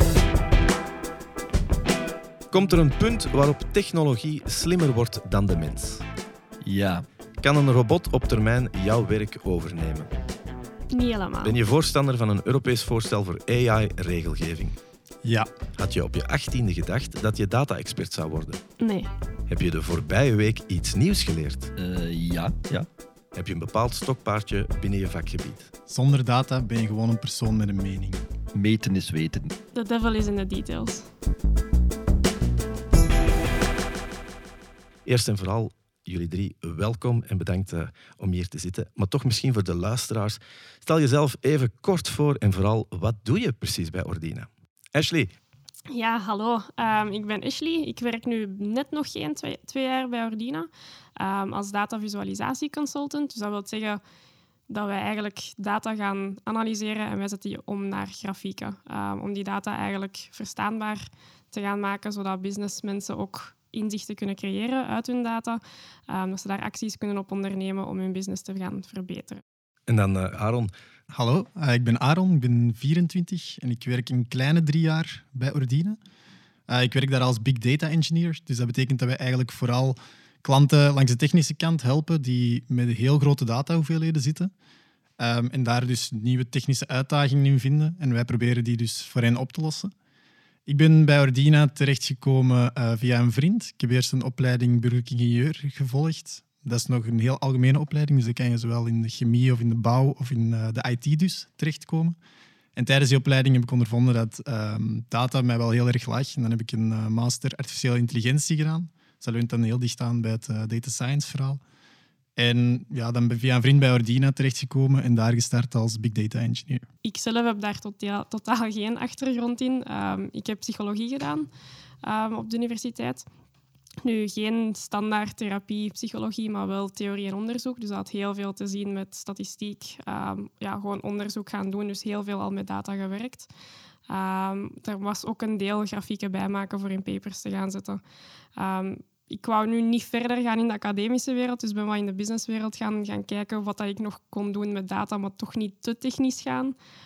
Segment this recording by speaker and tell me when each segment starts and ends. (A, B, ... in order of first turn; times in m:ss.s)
0:02.5-0:06.0 A
0:06.6-0:07.0 B
0:07.4-0:10.1 A
0:10.9-0:11.6 C
0:11.4-0:14.8 A
0:15.2-0:15.5 D
0:15.8-0:18.6 A
0:18.8-0:19.1 C
0:19.5-0:21.7 A
0:21.8-0:22.9 B
0:23.3-0:25.7 A
0:25.9-0:28.2 D
0:28.5-0:29.5 B
0:29.7-0:31.1 C
0:35.1-0:45.3 A
0:45.9-0:54.0 C
0:54.7-1:09.4 C
1:09.9-1:10.7 A
1:11.1-1:16.0 D
1:16.7-1:24.5 D
1:25.2-1:29.9 D
1:30.7-1:42.2 D
1:42.8-1:51.6 D
1:52.4-1:56.9 D
1:57.0-2:01.5 C
2:02.0-2:03.3 C
2:04.0-2:13.5 C
2:14.1-2:18.0 C
2:18.6-2:26.8 C